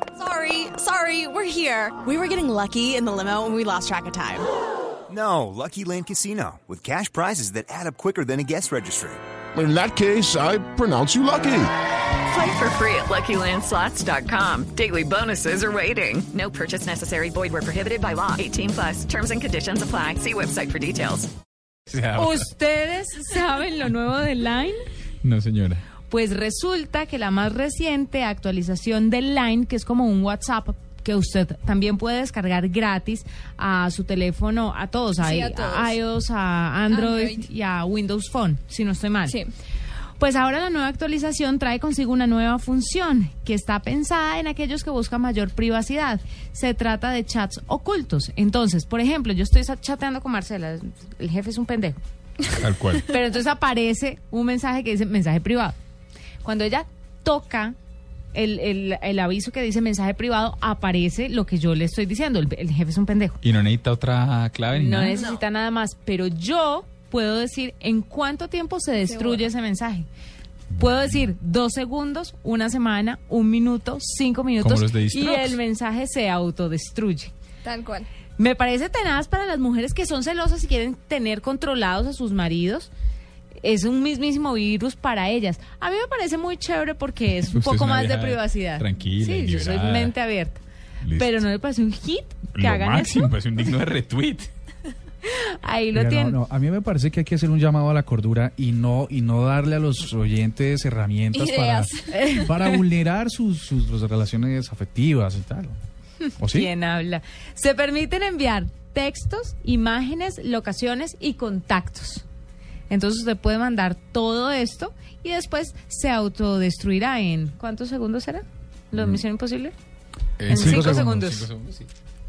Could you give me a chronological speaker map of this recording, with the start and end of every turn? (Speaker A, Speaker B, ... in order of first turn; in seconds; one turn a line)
Speaker A: 0.2-4.5
Speaker B: 5.1-9.2
Speaker C: 9.5-11.7
Speaker D: 12.3-21.3
Speaker E: 21.9-22.3
Speaker F: 22.1-24.8
Speaker E: 25.2-25.9
Speaker F: 26.1-39.4
Speaker G: 35.2-35.9
Speaker G: 36.9-37.5
Speaker F: 40.2-52.0
Speaker E: 52.5-53.1
Speaker F: 53.1-55.8
Speaker F: 56.4-57.8
Speaker F: 58.3-63.4
Speaker E: 63.4-65.2
Speaker F: 64.7-70.1
Speaker G: 69.1-69.5
Speaker E: 70.7-71.2
Speaker F: 70.7-77.3
Speaker E: 74.6-75.6
Speaker G: 77.7-78.1
Speaker F: 78.4-82.9
Speaker F: 83.6-90.6
Speaker E: 87.4-90.1
Speaker E: 91.0-91.4
Speaker F: 91.1-93.3
Speaker E: 92.5-94.5
Speaker F: 95.2-96.4
Speaker H: 95.9-105.8
Speaker G: 101.3-102.3
Speaker F: 102.1-102.8
Speaker H: 106.4-106.7
Speaker F: 106.4-112.2
Speaker F: 112.9-119.7
Speaker E: 120.4-121.9
Speaker F: 120.5-121.5
Speaker H: 120.5-121.1